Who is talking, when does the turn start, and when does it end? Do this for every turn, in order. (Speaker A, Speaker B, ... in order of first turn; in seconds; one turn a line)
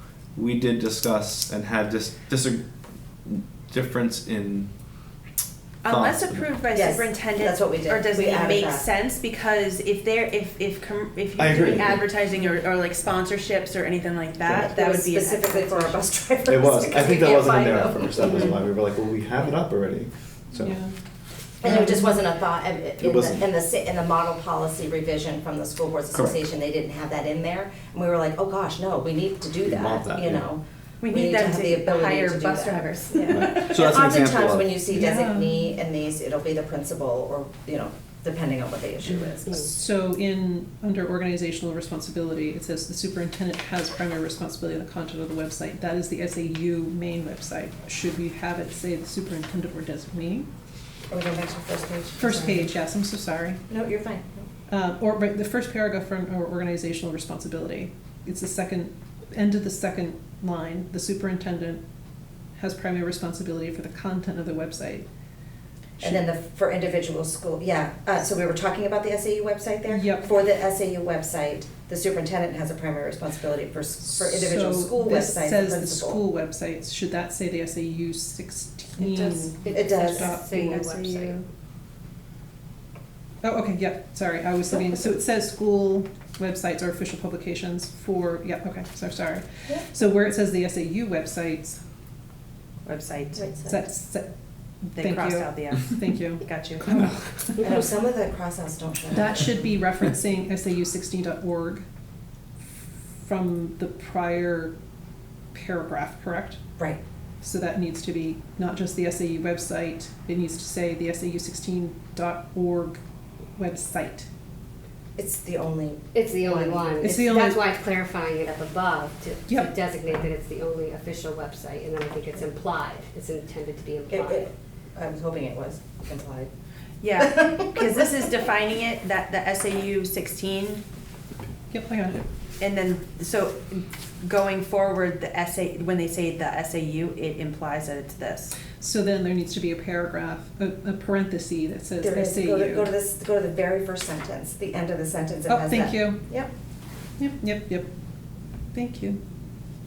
Speaker A: 0.3-2.7
Speaker A: 3.2-4.7
Speaker B: 5.8-16.0
Speaker A: 5.8-6.6
Speaker C: 6.7-8.9
Speaker A: 11.4-12.1
Speaker C: 14.5-18.7
Speaker A: 16.5-20.8
Speaker D: 20.6-21.0
Speaker C: 21.6-39.6
Speaker D: 21.7-22.1
Speaker A: 23.0-23.4
Speaker A: 26.1-26.4
Speaker A: 29.6-30.5
Speaker B: 31.0-33.8
Speaker A: 33.3-34.8
Speaker D: 34.9-35.7
Speaker D: 39.1-50.5
Speaker C: 51.1-52.7
Speaker D: 52.2-53.6
Speaker C: 53.7-54.5
Speaker D: 54.7-61.8
Speaker D: 62.5-65.0
Speaker C: 66.0-76.2
Speaker D: 69.9-70.3
Speaker D: 74.0-80.9
Speaker E: 79.0-81.4
Speaker C: 79.7-80.5
Speaker B: 80.6-81.5
Speaker D: 83.4-91.8
Speaker B: 92.8-93.5
Speaker C: 93.4-93.9
Speaker D: 93.7-94.3
Speaker D: 94.8-97.8
Speaker B: 95.0-96.9
Speaker C: 97.6-99.7
Speaker D: 99.1-101.8
Speaker D: 102.7-104.8
Speaker D: 105.5-106.6
Speaker D: 107.4-113.0
Speaker D: 113.6-114.3
Speaker C: 115.2-116.9
Speaker E: 116.2-124.5
Speaker D: 117.0-117.7
Speaker C: 124.1-126.5
Speaker B: 127.0-130.8
Speaker C: 127.2-127.7
Speaker D: 131.7-132.2
Speaker B: 132.6-138.6
Speaker D: 138.8-142.9
Speaker C: 142.0-146.5
Speaker D: 145.5-146.3
Speaker D: 147.2-147.9
Speaker D: 148.7-149.2